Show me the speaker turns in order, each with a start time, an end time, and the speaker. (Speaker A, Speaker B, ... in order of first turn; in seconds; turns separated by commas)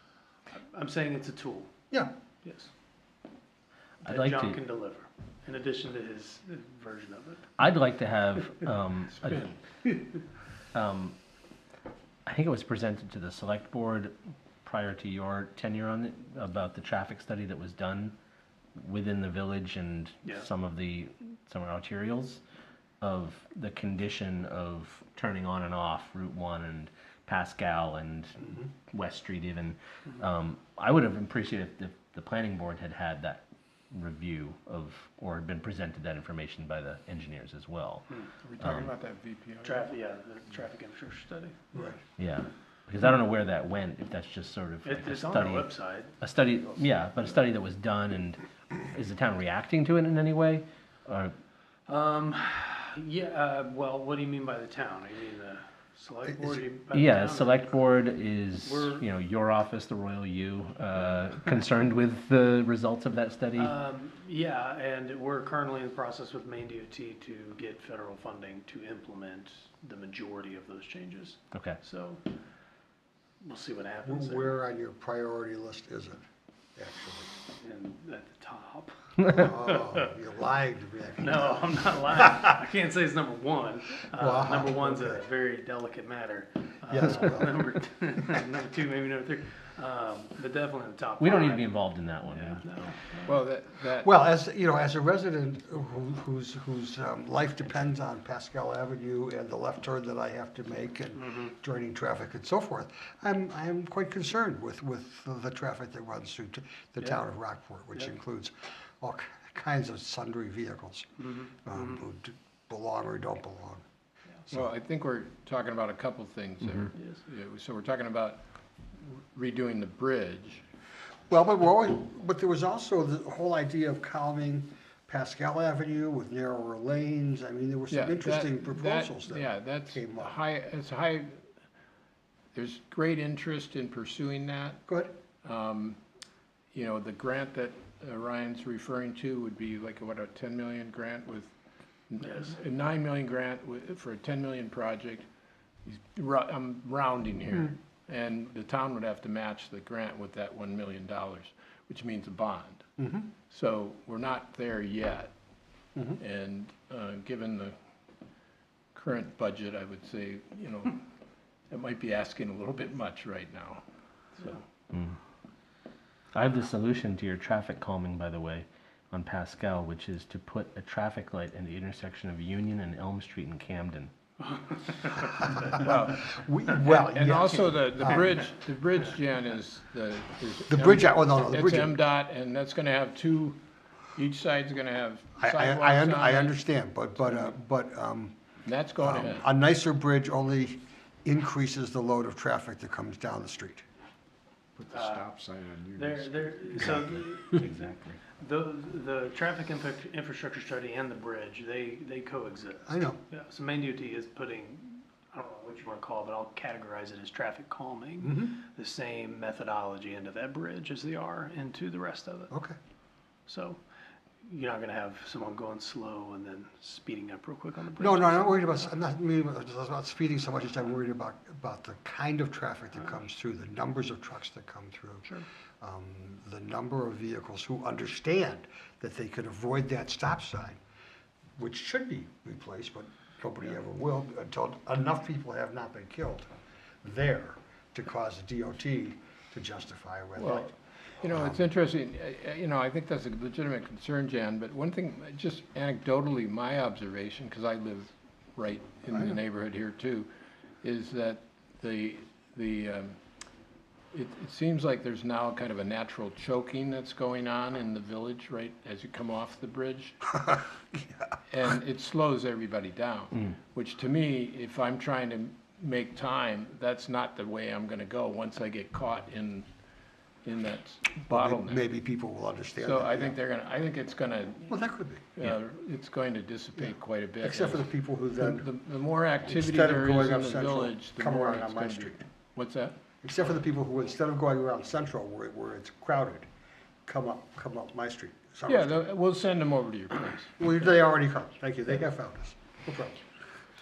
Speaker A: 0.5-1.7, Speaker A: 2.4-2.7, Speaker A: 4.0-7.5, Speaker B: 4.0-4.6, Speaker B: 7.6-9.5, Speaker B: 10.7-11.2, Speaker B: 12.2-18.1, Speaker B: 18.8-22.4, Speaker B: 23.0-38.1, Speaker C: 38.4-39.8, Speaker B: 38.6-38.9, Speaker A: 39.6-41.9, Speaker B: 42.2-51.3, Speaker A: 44.9-46.1, Speaker A: 51.9-57.7, Speaker B: 56.9-63.7, Speaker A: 58.6-59.0, Speaker A: 63.6-72.2, Speaker B: 71.5-71.8, Speaker A: 73.4-74.5, Speaker D: 74.0-76.2, Speaker D: 76.8-77.3, Speaker A: 77.6-80.0, Speaker D: 79.2-82.4, Speaker A: 81.2-91.7, Speaker D: 84.1-85.2, Speaker D: 86.9-87.6, Speaker B: 91.2-92.6, Speaker A: 92.3-93.4, Speaker C: 93.2-94.1, Speaker D: 93.9-113.8, Speaker A: 111.2-112.0, Speaker C: 114.5-118.4, Speaker C: 118.9-120.6, Speaker D: 121.3-130.4, Speaker C: 127.9-131.4, Speaker C: 132.5-134.8, Speaker D: 134.9-135.2, Speaker C: 135.4-136.0, Speaker C: 136.7-141.5, Speaker C: 142.1-145.2, Speaker C: 145.8-152.9, Speaker D: 153.0-153.3, Speaker C: 153.4-155.3, Speaker C: 156.2-157.8, Speaker C: 158.9-161.0, Speaker C: 161.7-163.8, Speaker C: 164.4-164.6, Speaker B: 164.9-165.2, Speaker B: 166.3-174.1, Speaker A: 174.4-175.6, Speaker D: 175.5-178.4, Speaker C: 175.8-176.3, Speaker C: 176.8-183.6, Speaker D: 180.7-181.9, Speaker C: 184.1-186.5, Speaker D: 185.4-188.3, Speaker C: 187.2-187.5, Speaker C: 188.6-189.4, Speaker D: 189.0-193.8, Speaker E: 194.8-197.0, Speaker A: 194.9-195.2, Speaker A: 195.9-212.5, Speaker B: 197.5-198.2, Speaker D: 202.9-203.2, Speaker D: 208.2-208.6, Speaker D: 212.5-212.7, Speaker A: 213.5-213.8, Speaker A: 214.4-218.8, Speaker D: 218.0-230.8, Speaker D: 231.6-236.5, Speaker D: 237.0-240.7, Speaker C: 240.4-250.3, Speaker D: 241.2-241.6, Speaker D: 249.1-249.4, Speaker C: 250.8-253.2, Speaker C: 254.1-260.4, Speaker D: 260.4-261.3, Speaker C: 261.5-269.7, Speaker C: 270.4-271.8, Speaker D: 271.3-273.4, Speaker C: 272.8-274.8, Speaker D: 274.7-275.3, Speaker C: 275.4-282.9, Speaker D: 276.8-278.7, Speaker D: 279.4-282.2, Speaker D: 283.2-286.4, Speaker D: 287.1-289.0, Speaker C: 288.7-290.5, Speaker D: 290.6-293.2